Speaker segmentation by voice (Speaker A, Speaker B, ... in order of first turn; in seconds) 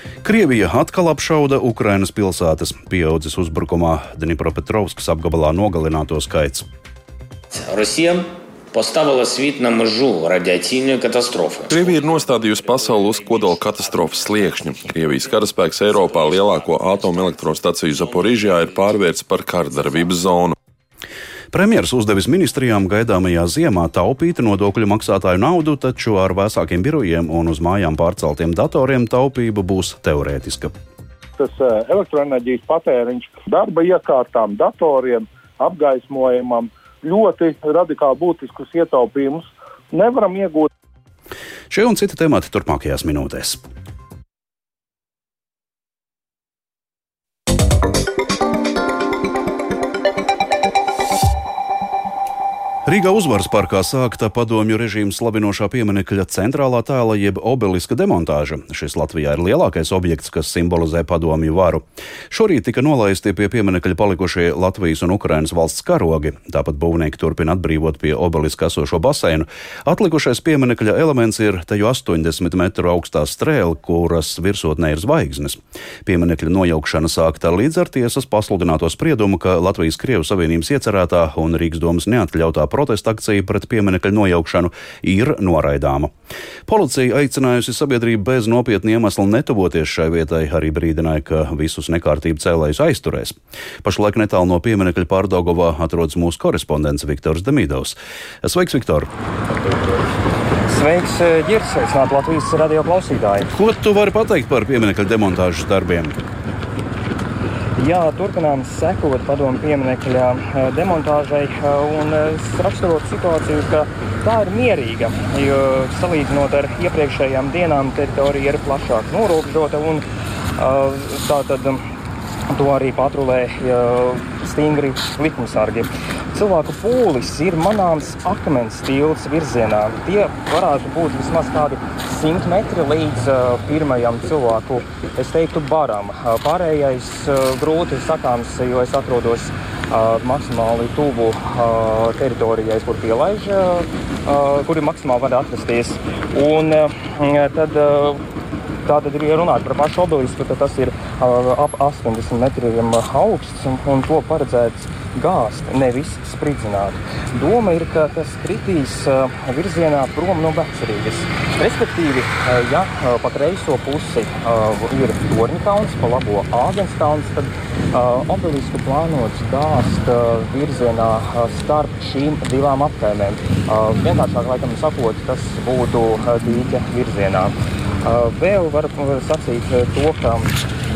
Speaker A: 0.2-6.7, 21.5-30.7, 41.7-43.6, 52.9-86.1, 86.7-99.1, 103.5-106.2
Speaker B: 7.5-19.0, 19.8-20.1
Speaker C: 11.7-20.6
Speaker D: 31.4-40.7
Speaker E: 100.7-103.5, 107.8-120.0, 120.6-121.8, 122.5-148.2, 148.8-177.5, 178.0-180.6